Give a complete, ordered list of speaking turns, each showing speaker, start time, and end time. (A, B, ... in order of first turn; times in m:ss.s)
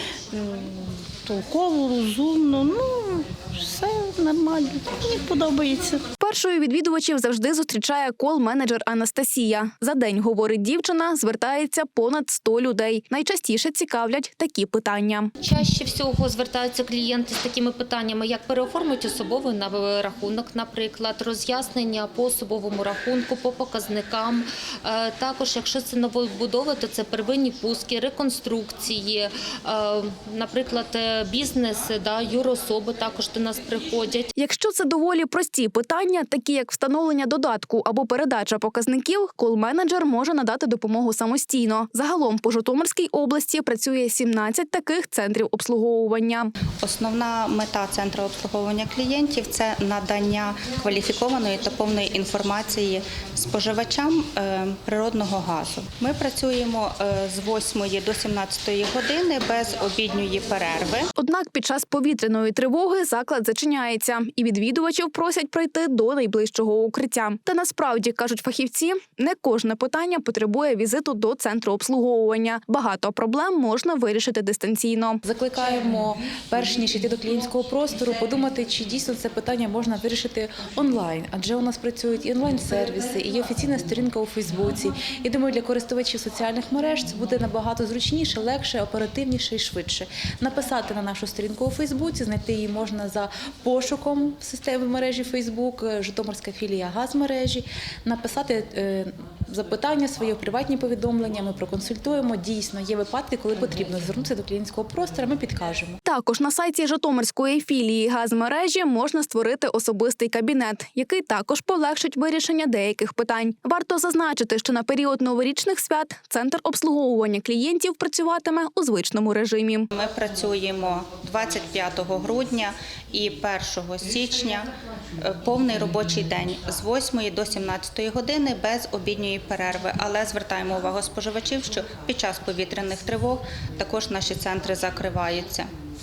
0:00.3-0:06.0 A
0:06.2-0:15.3 B
0:15.4-0:34.3 C
0:34.4-0:46.5 B
0:46.8-1:01.1 D
1:01.2-1:15.2 B
1:15.2-1:46.0 E
1:46.0-1:59.8 B
1:59.9-2:15.7 D